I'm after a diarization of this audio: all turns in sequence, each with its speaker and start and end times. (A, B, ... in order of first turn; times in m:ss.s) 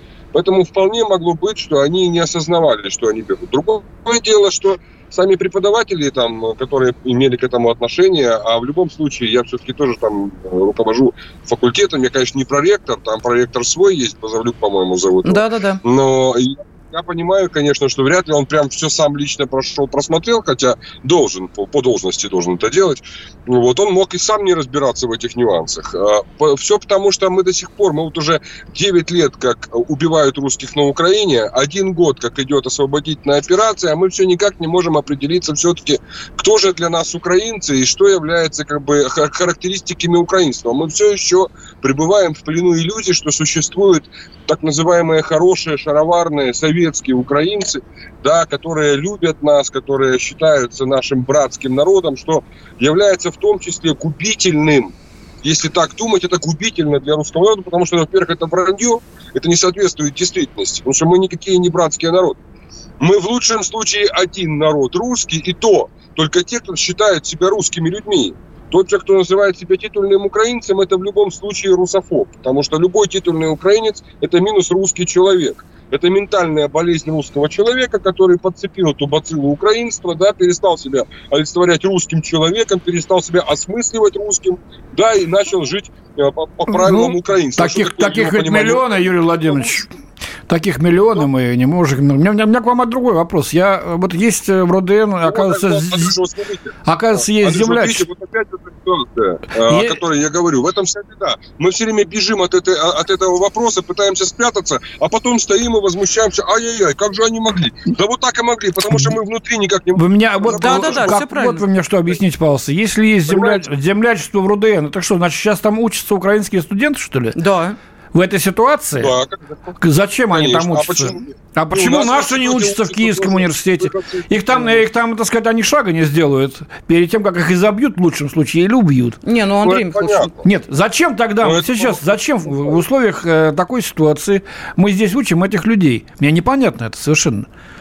0:00.3-1:02.4 A
0:15.2-0:15.8 B
1:03.0-1:29.8 A
1:26.7-1:29.9 C
1:30.5-1:36.2 C
1:35.2-1:51.2 A
1:36.8-1:38.1 C
1:39.7-1:40.0 C
1:49.9-1:57.4 C
1:50.5-1:51.6 B
1:53.3-1:53.6 A
1:57.4-1:57.8 B
1:58.1-1:59.1 C
1:59.0-1:59.8 A
1:59.8-2:09.2 C
2:00.3-2:04.9 A
2:09.2-2:10.3 B
2:09.6-2:10.4 A
2:10.4-2:17.5 C
2:11.4-2:12.8 A